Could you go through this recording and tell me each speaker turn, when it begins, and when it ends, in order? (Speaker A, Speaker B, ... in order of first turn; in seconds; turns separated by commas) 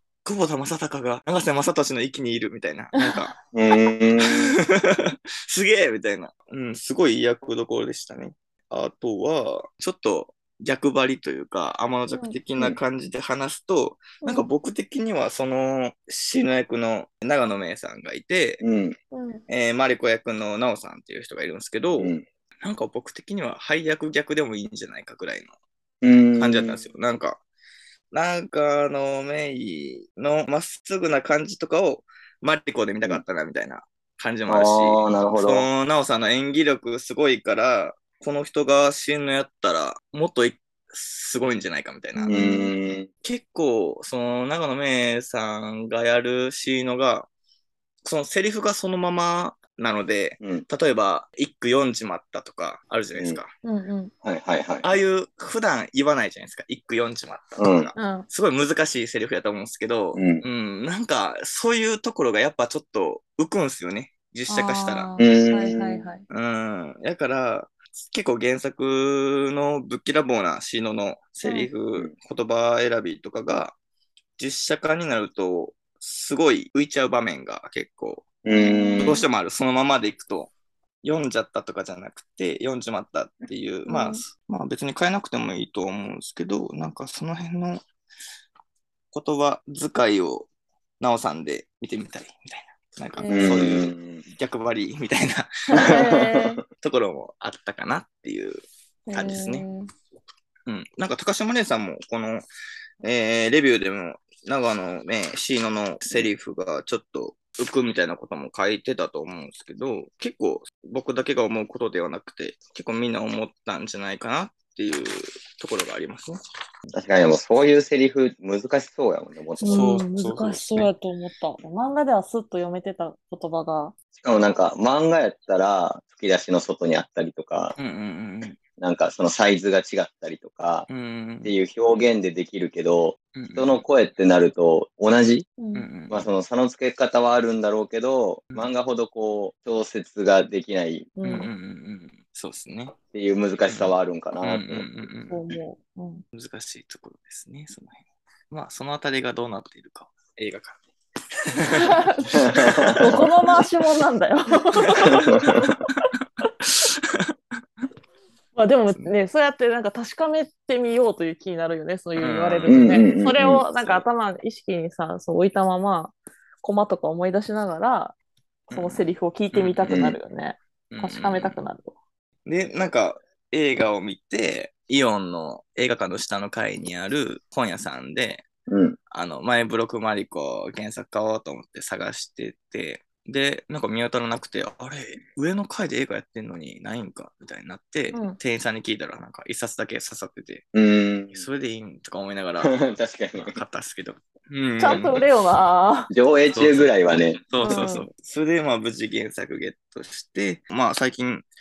Speaker A: 0.2-3.3, Speaker B: 3.0-3.2, Speaker C: 3.5-4.5, Speaker A: 4.2-18.6, Speaker B: 12.1-12.4, Speaker C: 18.6-19.0, Speaker B: 19.1-19.4, Speaker A: 19.5-25.5, Speaker C: 22.0-22.2, Speaker C: 26.0-26.8, Speaker A: 26.4-27.4, Speaker A: 28.1-42.4, Speaker C: 34.5-35.7, Speaker B: 42.1-42.7, Speaker C: 42.3-43.1, Speaker A: 43.2-47.3, Speaker A: 48.0-53.5, Speaker C: 53.1-53.4, Speaker B: 53.6-54.1, Speaker C: 54.2-55.0, Speaker A: 54.8-65.2, Speaker C: 57.6-57.9, Speaker B: 58.0-58.3, Speaker C: 60.1-60.4, Speaker B: 64.5-66.2, Speaker C: 65.2-66.1, Speaker A: 66.3-73.8, Speaker B: 71.4-71.7, Speaker A: 74.4-78.4, Speaker C: 78.4-79.2, Speaker B: 78.5-79.2, Speaker A: 79.0-87.8, Speaker B: 83.9-84.2, Speaker A: 89.1-90.5, Speaker A: 91.0-95.9, Speaker B: 93.2-93.6, Speaker C: 93.3-94.2, Speaker B: 95.7-96.6, Speaker C: 95.8-96.5, Speaker A: 96.7-98.6, Speaker B: 99.1-99.9, Speaker A: 99.1-99.7, Speaker A: 100.7-102.5, Speaker A: 103.0-116.4, Speaker C: 116.9-120.0, Speaker B: 119.6-123.9, Speaker A: 119.7-120.9, Speaker C: 124.2-127.8, Speaker A: 127.8-128.6, Speaker C: 128.8-130.9, Speaker A: 130.9-131.5, Speaker C: 131.4-135.5, Speaker A: 133.3-133.8, Speaker B: 135.6-135.9, Speaker A: 135.7-136.3, Speaker C: 136.1-141.1, Speaker B: 141.2-141.5, Speaker A: 141.2-143.0, Speaker C: 143.1-144.9, Speaker A: 143.7-145.5, Speaker B: 145.3-146.2, Speaker A: 146.3-150.8, Speaker A: 151.4-153.2, Speaker B: 151.7-152.4, Speaker C: 152.4-153.2, Speaker B: 152.9-155.4, Speaker A: 154.8-155.1, Speaker C: 155.3-155.6, Speaker A: 156.6-157.3, Speaker B: 158.6-168.2, Speaker A: 162.2-162.9, Speaker C: 162.7-163.6, Speaker A: 163.8-164.0, Speaker A: 168.7-170.0, Speaker B: 168.7-171.9, Speaker C: 169.9-170.2, Speaker A: 170.9-171.6, Speaker A: 172.5-178.5, Speaker C: 178.7-179.0, Speaker A: 179.1-190.7, Speaker B: 188.1-188.4, Speaker C: 190.7-191.5, Speaker A: 191.3-192.8, Speaker C: 192.6-193.6, Speaker A: 193.4-195.2, Speaker B: 194.8-196.1, Speaker C: 196.1-197.9, Speaker A: 196.5-201.5, Speaker B: 197.6-198.1